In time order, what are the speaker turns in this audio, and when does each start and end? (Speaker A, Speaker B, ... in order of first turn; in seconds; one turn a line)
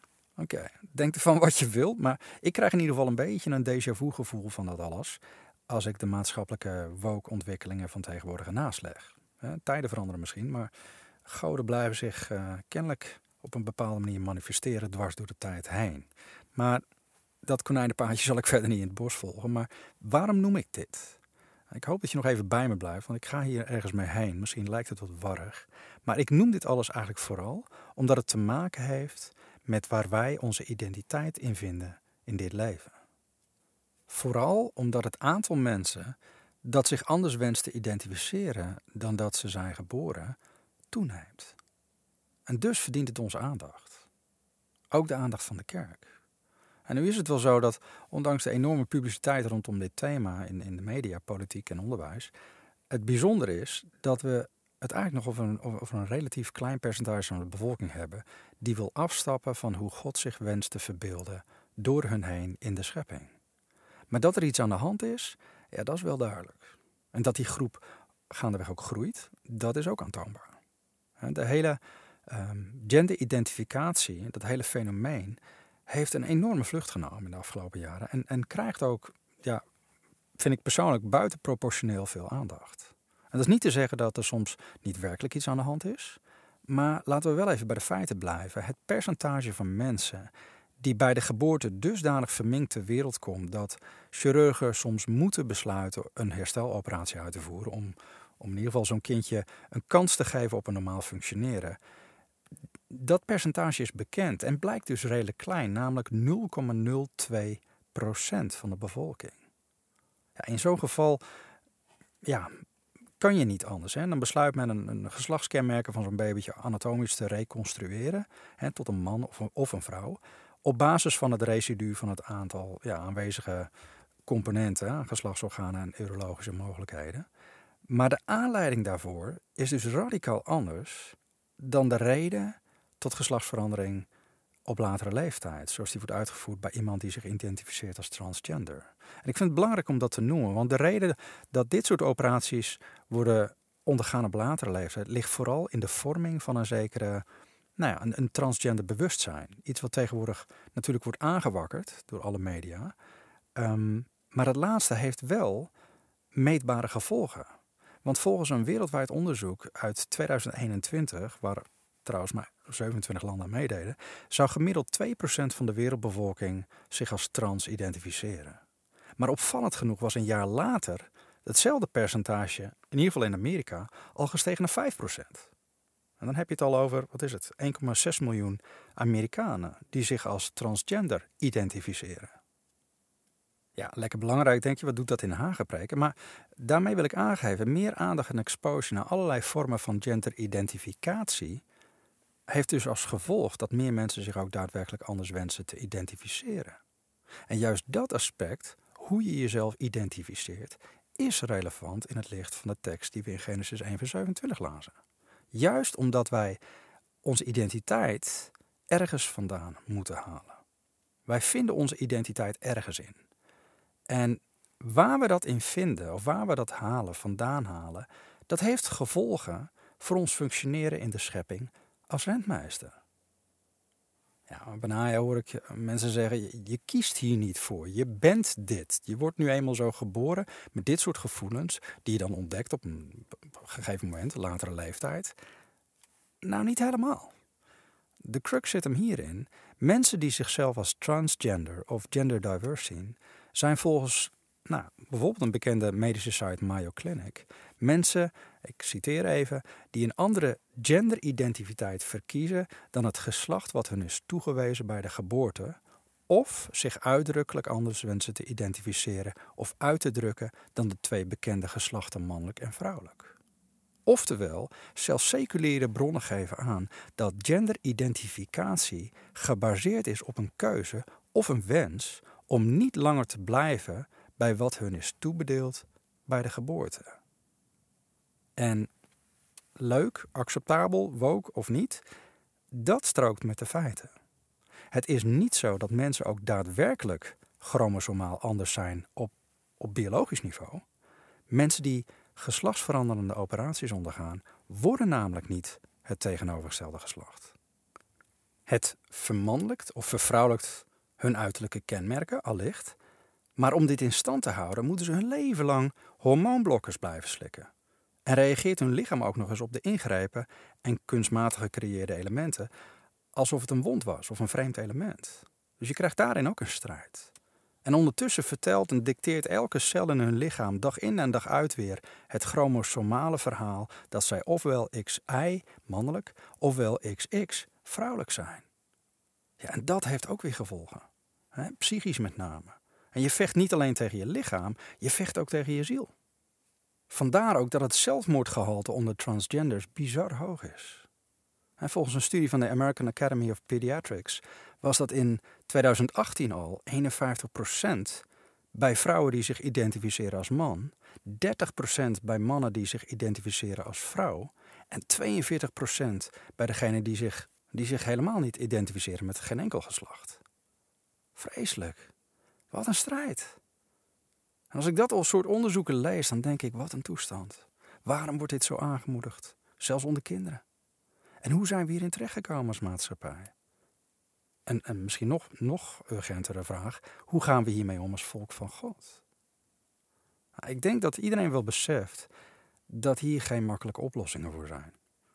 Speaker A: 0.4-10.7
Speaker A: 11.2-16.8
Speaker A: 17.4-21.2
Speaker A: 21.7-32.9
Speaker A: 34.1-40.4
Speaker A: 40.9-41.5
Speaker A: 42.5-44.0
Speaker A: 44.9-46.1
Speaker A: 46.9-52.3
Speaker A: 52.9-63.3
Speaker A: 64.1-70.6
Speaker A: 71.2-79.6
Speaker A: 80.4-101.8
Speaker A: 102.9-109.4
Speaker A: 110.4-111.2
Speaker A: 112.2-112.5
Speaker A: 113.2-123.7
Speaker A: 124.3-127.2
Speaker A: 127.9-134.1
Speaker A: 134.7-147.2
Speaker A: 147.8-152.9
Speaker A: 153.6-155.7
Speaker A: 156.3-157.5
Speaker A: 158.0-168.6
Speaker A: 169.2-175.5
Speaker A: 176.2-182.4
Speaker A: 183.8-191.6
Speaker A: 192.5-196.8
Speaker A: 197.5-204.9
Speaker A: 205.5-206.6
Speaker A: 207.2-210.6
Speaker A: 211.3-213.2
Speaker A: 214.1-223.0
Speaker A: 224.5-235.3
Speaker A: 236.4-237.3
Speaker A: 238.2-255.8
Speaker A: 256.3-263.4
Speaker A: 264.1-277.2
Speaker A: 278.6-278.9
Speaker A: 279.8-282.0
Speaker A: 282.7-284.1
Speaker A: 284.9-290.8
Speaker A: 291.5-297.5
Speaker A: 298.7-303.0
Speaker A: 303.6-307.7
Speaker A: 308.2-312.7
Speaker A: 313.3-317.3
Speaker A: 317.9-328.6
Speaker A: 329.6-336.1
Speaker A: 337.1-341.1
Speaker A: 341.8-360.4
Speaker A: 361.4-362.1
Speaker A: 362.7-363.6
Speaker A: 364.7-370.6
Speaker A: 371.4-373.5
Speaker A: 374.7-379.2
Speaker A: 380.6-382.3
Speaker A: 382.9-384.9